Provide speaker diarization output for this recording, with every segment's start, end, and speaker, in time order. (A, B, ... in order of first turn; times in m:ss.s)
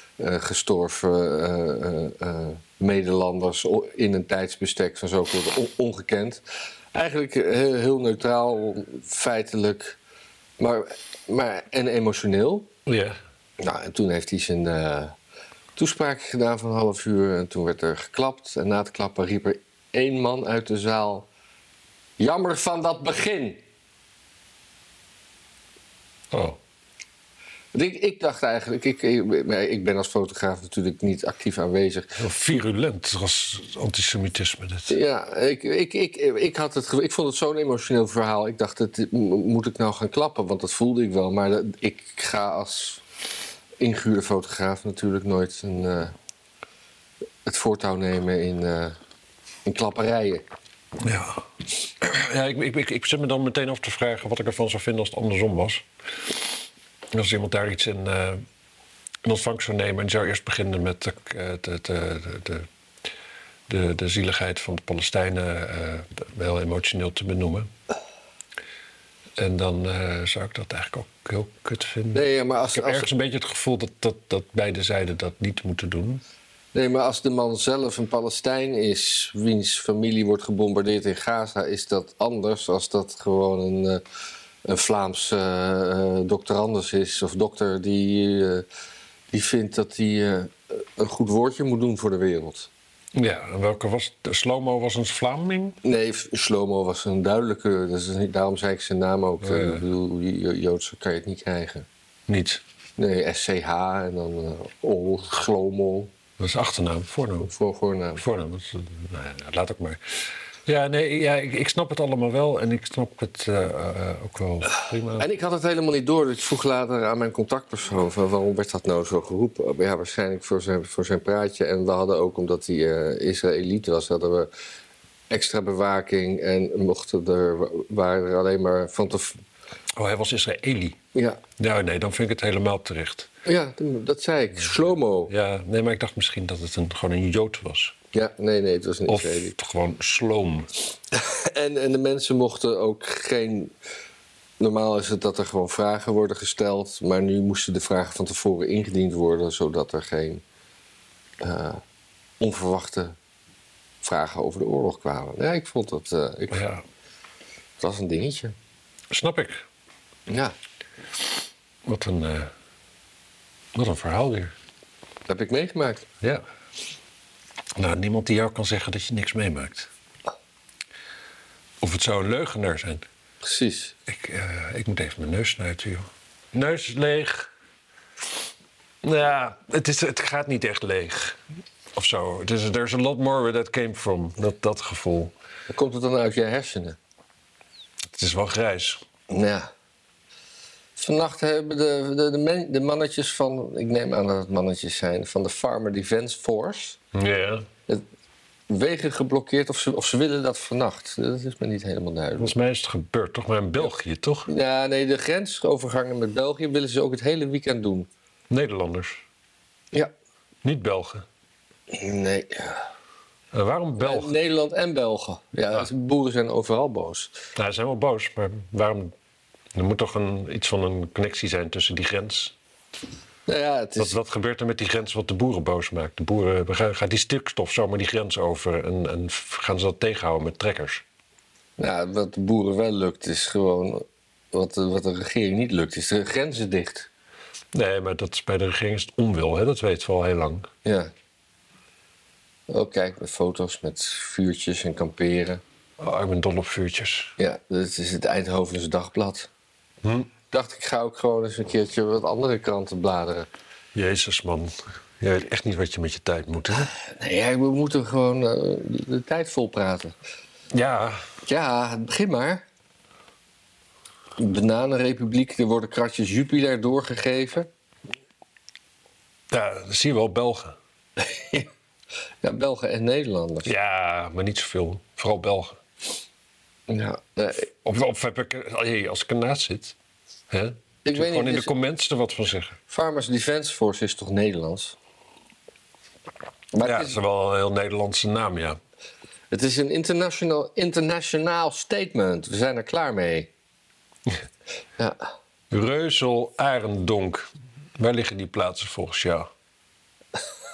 0:00.2-0:06.4 A
0:06.9-0:10.0 A
0:10.6-0:12.7 A
0:12.9-0:13.2 B
0:13.6-0:15.2 A
0:15.8-0:21.3 A
0:22.2-0:23.6 A
0:26.3-0:26.6 B
0:27.7-0:32.2 A
0:32.2-0:35.0 B
0:34.9-0:43.0 A
0:43.8-0:46.1 A
0:47.4-0:49.0 A
0:49.7-0:50.4 A
0:51.0-0:51.4 B
0:52.0-0:56.5 B
0:57.1-0:58.4 B
0:59.2-1:02.7 B
1:03.7-1:07.7 B
1:09.4-1:16.2 B
1:12.1-1:13.1 A
1:16.7-1:24.0 A
1:24.6-1:28.6 A
1:29.3-1:32.7 A
1:33.1-1:35.8 B
1:35.8-1:41.9 A
1:39.4-1:39.8 B
1:42.3-1:42.6 B
1:43.0-1:46.1 A
1:46.4-1:47.5 B
1:47.4-1:48.2 A
1:48.2-1:55.3 B
1:55.2-2:04.5 A
2:05.3-2:09.4 A
2:10.0-2:11.0 B
2:11.1-2:11.4 A
2:11.6-2:13.3 B
2:13.4-2:15.3 A
2:14.6-2:18.0 B
2:18.1-2:19.6 A
2:19.1-2:20.7 B
2:21.1-2:23.7 A
2:24.6-2:30.4 A
2:31.4-2:31.8 A
2:32.4-2:33.2 A
2:34.0-2:36.6 A
2:36.5-2:36.8 B
2:37.8-2:38.6 A
2:39.1-2:39.6 B
2:40.3-2:40.6 A
2:41.8-2:42.5 B
2:43.8-2:44.5 B
2:45.3-2:46.1 A
2:47.8-2:49.9 B
2:51.8-2:53.0 B
2:53.4-2:54.0 A
2:54.1-2:57.5 B
2:59.0-3:01.4 B
3:02.0-3:05.3 B
3:05.7-3:07.0 A
3:08.1-3:09.0 B
3:09.3-3:09.7 A
3:11.0-3:17.0 A
3:17.1-3:17.7 B
3:18.7-3:22.5 A
3:22.4-3:24.5 B
3:24.5-3:28.1 A
3:28.5-3:29.2 B
3:30.6-3:31.3 B
3:31.9-3:32.8 A
3:33.5-3:34.3 B
3:34.0-3:37.3 A
3:37.6-3:39.1 B
3:39.7-3:42.5 B
3:43.5-3:44.2 A
3:44.0-3:51.0 B
3:51.8-3:57.1 A
3:57.7-4:00.7 B
4:00.8-4:01.1 A
4:02.7-4:05.6 A
4:06.0-4:07.3 B
4:07.4-4:09.5 A
4:10.0-4:10.3 B
4:10.5-4:13.5 A
4:14.0-4:16.9 B
4:16.9-4:20.2 A
4:20.7-4:21.2 B
4:21.5-4:22.6 A
4:24.4-4:27.7 A
4:29.5-4:30.8 B
4:31.2-4:31.7 A
4:32.4-4:33.7 A
4:33.6-4:35.8 B
4:36.9-4:37.7 A
4:37.6-4:40.0 B
4:40.5-4:42.8 B
4:41.0-4:41.7 A
4:42.9-4:45.0 A
4:46.7-4:47.2 A
4:46.8-4:48.8 B
4:49.5-4:53.5 A
4:55.7-4:59.5 B